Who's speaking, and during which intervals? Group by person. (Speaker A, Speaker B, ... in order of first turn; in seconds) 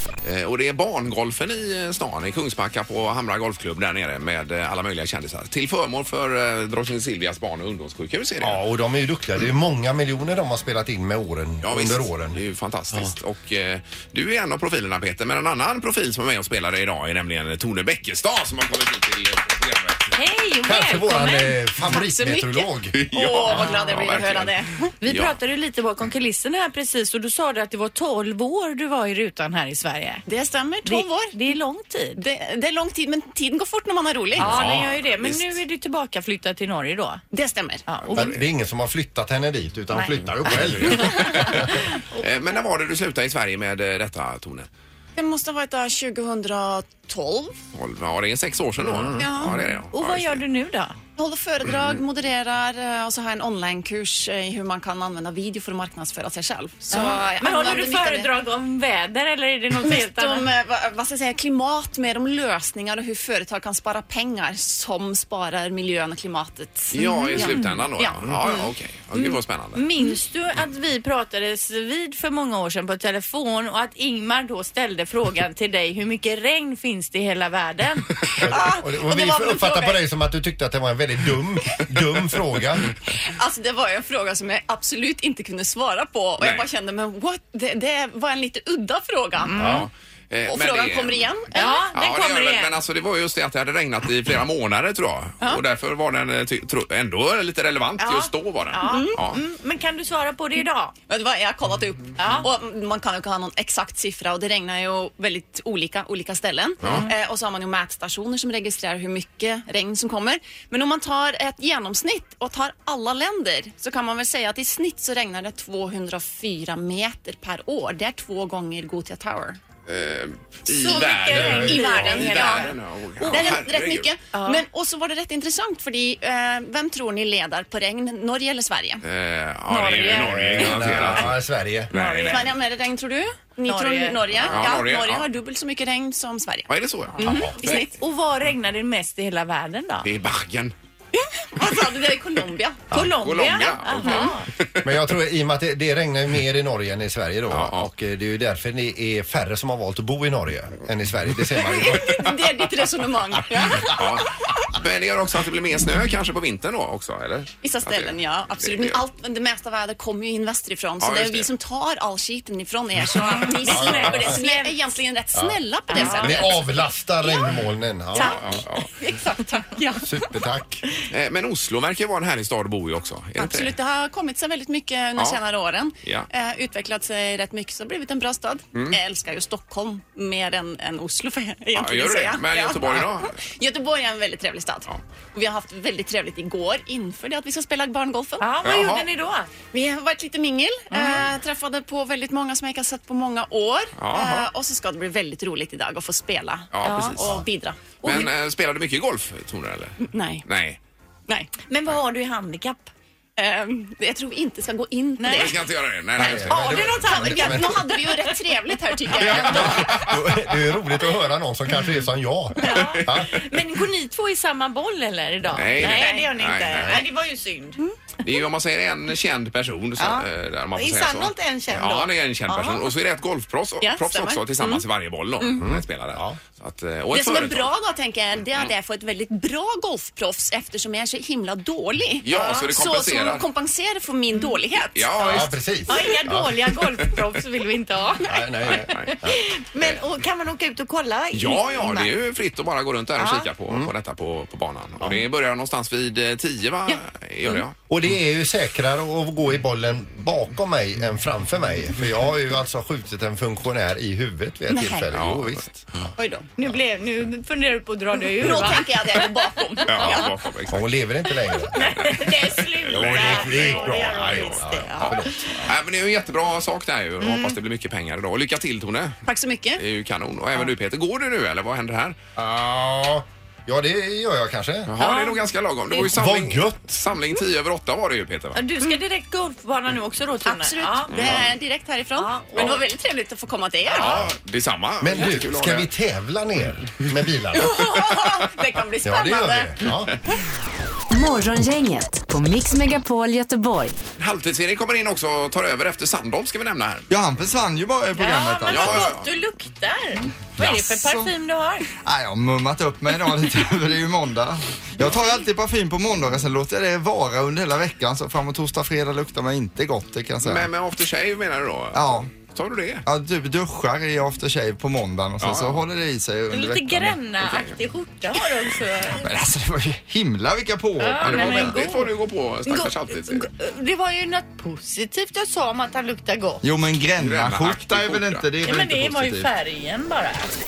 Speaker A: 0.2-8.6, 11.6-20.1, 22.9-25.3, 34.4-35.5, 40.5-44.7, 47.7-50.4, 66.9-69.8, 86.4-86.7, 89.6-91.3, 91.9-99.4, 119.9-124.1, 129.0-131.4, 131.9-132.5, 134.4-135.3, 136.7-137.8, 140.0-140.7, 143.1-144.9, 147.5-147.9, 153.9-159.0, 161.0-161.5, 168.2-168.9, 171.1-173.7, 181.7-183.4, 188.6-189.1, 194.0-194.5, 196.7-197.4, 198.0-200.8, 205.3-206.8, 209.2-210.7, 212.7-213.2, 215.5-217.0, 218.2-227.7, 232.2-233.4, 234.9-235.5, 238.6-239.1, 241.3-247.8, 255.1-256.1, 259.9-260.9, 261.9-269.2, 269.8-272.2, 274.9-278.6, 281.1-281.5, 283.9-285.9, 294.2-297.1, 298.7-299.2, 310.4-313.0, 315.4-315.8, 317.4-317.7, 321.2-323.5, 327.2-328.5
Speaker B: 8.4-12.4, 20.6-22.9, 38.1-41.8, 48.8-49.3, 78.4-82.9, 89.6-89.8, 121.4-121.7, 130.1-131.9, 144.8-152.3, 163.7-164.4, 165.3-168.6, 170.0-170.8, 206.2-207.8, 209.2-213.5, 225.6-226.4, 235.2-236.6, 238.2-239.4, 247.9-255.8, 260.7-262.2, 262.9-265.7, 272.4-274.9, 275.9-277.0, 284.0-284.3, 285.0-287.9, 289.0-290.1
Speaker C: 20.1-21.9, 25.0-30.2, 30.8-32.2, 34.4-37.2, 37.9-38.3, 40.9-42.2, 49.9-51.0, 56.9-60.5, 67.0-67.7, 69.7-78.1, 89.4-89.8, 91.5-92.8, 98.0-100.9, 102.2-102.5, 106.8-107.1, 120.7-122.7, 123.2-123.5, 124.3-124.6, 129.7-130.8, 131.9-132.5, 133.7-134.6, 137.2-140.1, 142.9-144.4, 163.1-164.8, 165.9-166.4, 188.4-189.5, 190.9-191.3, 196.8-197.2, 201.5-202.9, 205.2-205.5, 206.4-208.3, 212.6-217.8, 220.0-222.9, 235.9-242.1, 243.2-243.5, 256.6-260.2, 261.7-265.3, 267.2-267.5, 275.0-275.4, 278.5-281.1, 282.1-282.8, 298.1-301.9, 305.0-305.4, 316.5-319.3, 321.0-322.1, 322.6-326.6, 328.6-330.5
Speaker D: 21.9-24.9, 30.3-31.4, 32.2-34.6, 37.3-37.9, 45.1-47.6, 49.2-49.6, 51.1-58.3, 59.8-68.6, 78.5-80.0, 83.2-89.7, 90.5-91.8, 98.8-99.2, 101.1-119.6, 120.8-129.0, 132.0-136.7, 137.2-137.9, 141.5-142.8, 144.0-144.3, 151.6-154.0, 157.6-166.6, 168.1-170.2, 173.4-188.5, 189.7-198.3, 200.0-200.4, 203.4-205.6, 206.5-209.9, 215.9-216.3, 223.8-224.8, 225.4-225.6, 227.1-235.5, 254.7-255.1, 256.2-256.5, 258.3-260.3, 269.2-269.8, 280.4-284.2, 287.5-289.7
Speaker E: 291.1-293.9
Speaker F: 297.1-299.1, 300.6-301.3, 302.0-310.7, 311.9-312.3, 313.1-317.2, 319.1-321.8, 326.6-329.5